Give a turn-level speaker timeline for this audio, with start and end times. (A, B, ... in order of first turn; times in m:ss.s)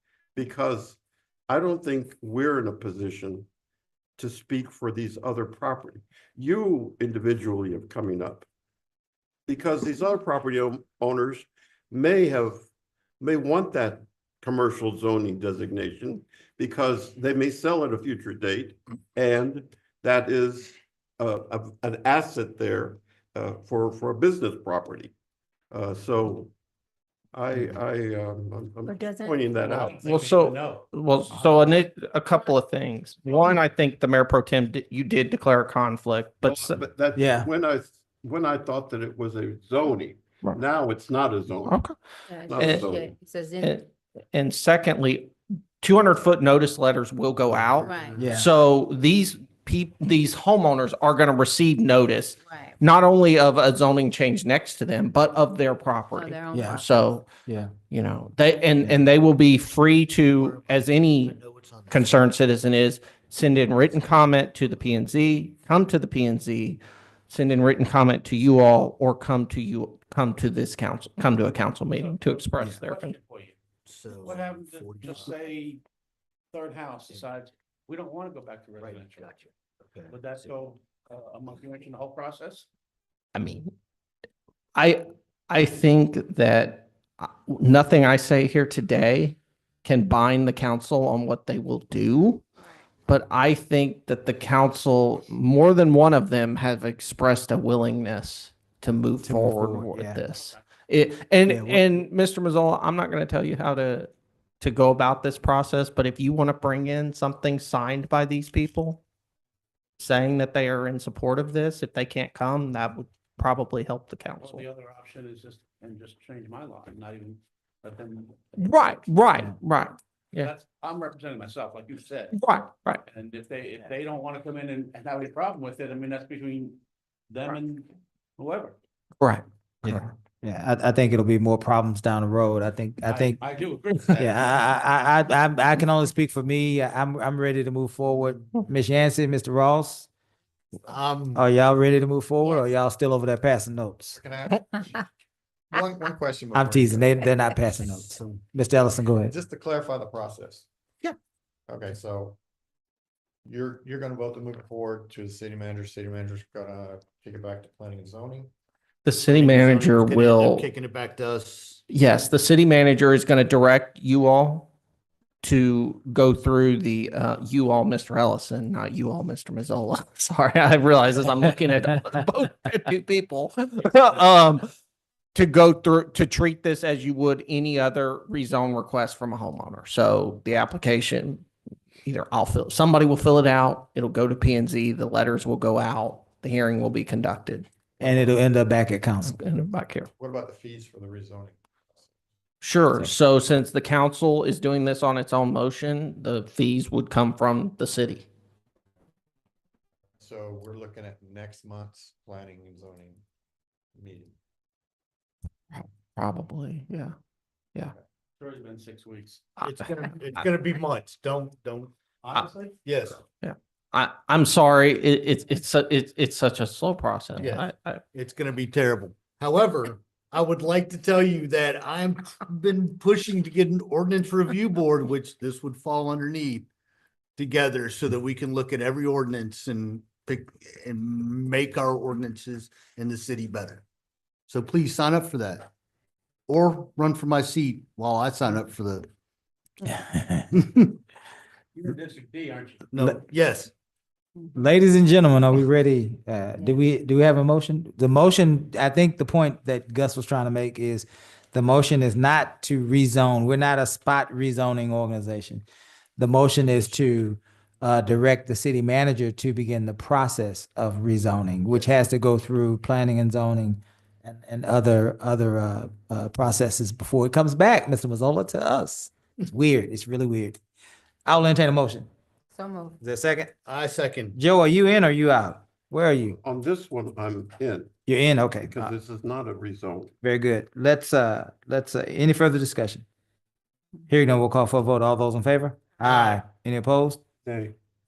0:00.4-0:03.5 A
0:04.2-0:08.4 A
0:09.5-0:12.7 A
0:13.2-0:25.1 A
0:25.7-0:26.5 A
0:27.3-0:30.2 A
0:28.9-0:29.4 B
0:29.6-0:31.8 C
0:30.0-0:36.8 D
0:36.4-0:41.8 A
0:37.2-0:37.5 E
0:41.6-0:42.0 D
0:42.3-0:43.8 B
0:42.5-0:43.2 A
0:42.6-0:42.9 D
0:43.6-0:57.3 D
0:47.5-0:48.5 E
0:47.8-0:48.2 B
0:47.9-0:48.2 F
0:52.5-0:52.8 B
0:56.2-0:57.2 B
0:56.5-0:56.8 E
0:57.5-0:57.7 E
0:57.9-1:01.4 D
1:00.3-1:02.3 G
1:01.9-1:13.1 D
1:03.8-1:04.5 G
1:11.9-1:13.6 C
1:13.8-1:15.3 G
1:14.2-1:15.8 C
1:16.5-1:19.4 C
1:18.8-1:20.5 G
1:20.1-1:22.7 C
1:23.3-1:23.7 D
1:24.8-1:32.5 D
1:33.1-1:49.0 D
1:39.2-1:40.2 E
1:40.3-1:40.6 C
1:41.5-1:41.9 E
1:50.0-1:54.7 D
1:54.4-1:59.0 C
1:58.6-2:00.5 D
2:00.4-2:02.4 C
2:02.4-2:03.0 D
2:03.1-2:08.8 C
2:09.2-2:10.1 D
2:09.8-2:13.4 E
2:13.0-2:14.7 C
2:14.2-2:20.1 E
2:20.9-2:21.5 G
2:21.4-2:24.2 E
2:24.2-2:25.0 F
2:25.7-2:27.3 F
2:26.5-2:29.3 E
2:27.8-2:28.4 F
2:29.2-2:30.7 F
2:31.7-2:32.4 F
2:33.5-2:38.5 F
2:39.0-2:40.7 D
2:39.3-2:41.8 G
2:41.9-2:44.7 D
2:45.4-2:54.7 D
2:55.3-3:01.5 D
3:02.0-3:08.2 D
3:08.0-3:09.4 E
3:09.2-3:10.1 D
3:10.2-3:12.1 F
3:12.6-3:18.3 D
3:20.2-3:23.2 F
3:24.0-3:24.3 F
3:25.7-3:27.1 D
3:28.4-3:29.5 C
3:29.6-3:31.9 G
3:32.2-3:32.8 C
3:32.8-3:33.2 G
3:33.4-3:38.0 D
3:37.4-3:46.7 G
3:47.4-3:53.8 G
3:54.5-3:55.7 G
3:56.5-3:59.1 G
3:59.8-4:00.6 E
4:00.5-4:01.0 G
4:01.7-4:02.8 C
4:02.9-4:03.7 G
4:04.5-4:15.7 E
4:16.2-4:30.6 E
4:31.3-4:32.1 E
4:32.5-4:33.0 B
4:33.0-4:33.5 E
4:33.7-4:34.4 G
4:34.4-4:36.4 E
4:36.4-4:38.0 A
4:38.1-4:38.9 E
4:38.7-4:40.1 A
4:40.2-4:43.0 E
4:44.1-4:47.2 E
4:46.1-4:46.4 A
4:47.4-4:47.8 A